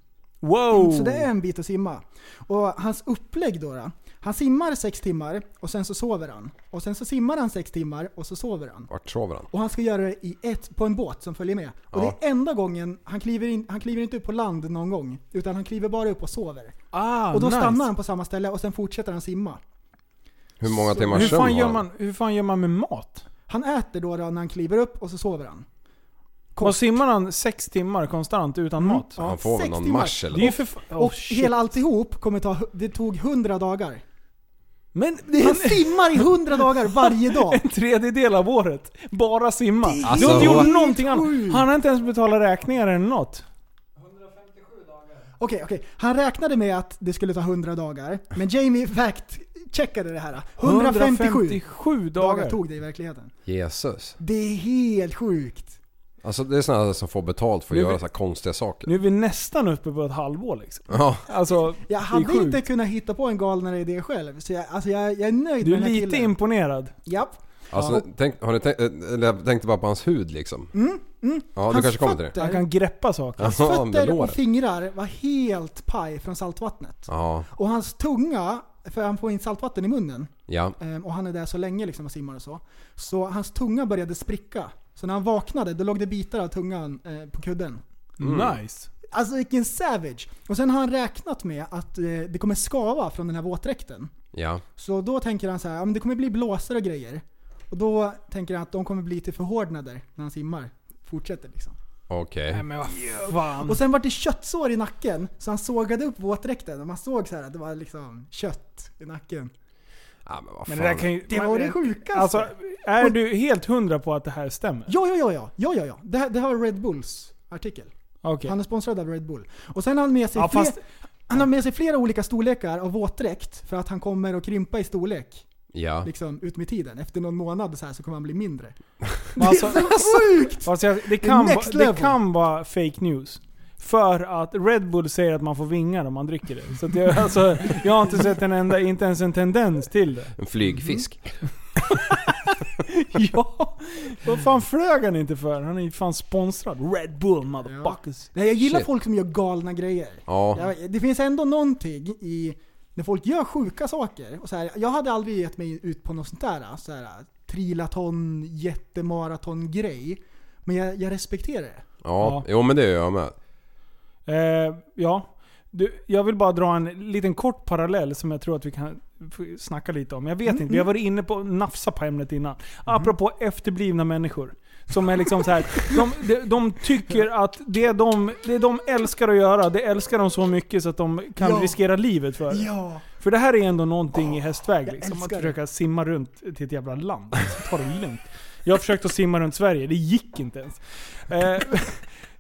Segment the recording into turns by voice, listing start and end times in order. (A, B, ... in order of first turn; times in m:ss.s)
0:00.4-0:01.3 A
0:00.7-0:08.9 B
0:08.9-0:09.5 C
0:09.5-0:16.8 B
0:11.9-0:12.2 C
0:16.9-0:17.9 A
0:17.3-0:19.6 B
0:20.6-0:21.8 C
0:20.6-0:21.6 B
0:21.1-0:23.3 A
0:23.5-0:25.7 B
0:26.6-0:26.9 B
0:26.6-0:29.1 A
0:28.8-0:34.0 B
0:29.2-0:30.6 C
0:30.3-0:31.6 A
0:35.0-0:43.4 A
0:35.3-0:37.6 B
0:39.8-0:41.7 B
0:40.0-0:40.7 C
0:45.4-0:53.4 B
0:50.6-0:52.6 A
0:53.5-0:54.2 C
0:54.2-0:55.8 B
0:56.2-0:58.9 C
0:57.7-0:58.0 A
0:58.8-1:02.6 A
1:00.9-1:01.2 C
1:01.9-1:06.4 B
1:05.6-1:07.0 A
1:07.0-1:08.1 B
1:07.7-1:10.8 C
1:10.7-1:12.7 B
1:11.6-1:12.4 C
1:12.4-1:13.5 A
1:13.4-1:14.4 C
1:13.4-1:27.8 B
1:17.1-1:17.5 C
1:20.5-1:20.8 C
1:28.2-1:28.9 A
1:28.2-1:28.6 C
1:29.1-1:34.1 B
1:34.3-1:34.6 C
1:34.8-1:41.8 B
1:42.1-1:42.7 C
1:42.5-1:43.8 A
1:43.0-1:49.5 B
1:50.2-1:51.1 C
1:50.7-1:54.9 A
1:51.3-1:53.2 B
1:54.9-2:00.8 B
1:58.2-1:58.5 A
2:00.4-2:00.8 A
2:01.3-2:05.5 B
2:05.7-2:06.1 C
2:06.0-2:12.2 B
2:09.4-2:20.3 A
2:20.4-2:21.8 C
2:20.6-2:21.1 B
2:23.0-2:28.3 A
2:27.7-2:41.8 B
2:28.6-2:28.9 C
2:30.3-2:30.7 C
2:42.0-2:43.4 C
2:42.2-2:42.4 A
2:44.3-3:12.0 A
2:50.5-2:50.8 B
2:55.7-2:56.0 B
3:01.4-3:01.8 B
3:02.5-3:03.0 B
3:04.9-3:05.6 B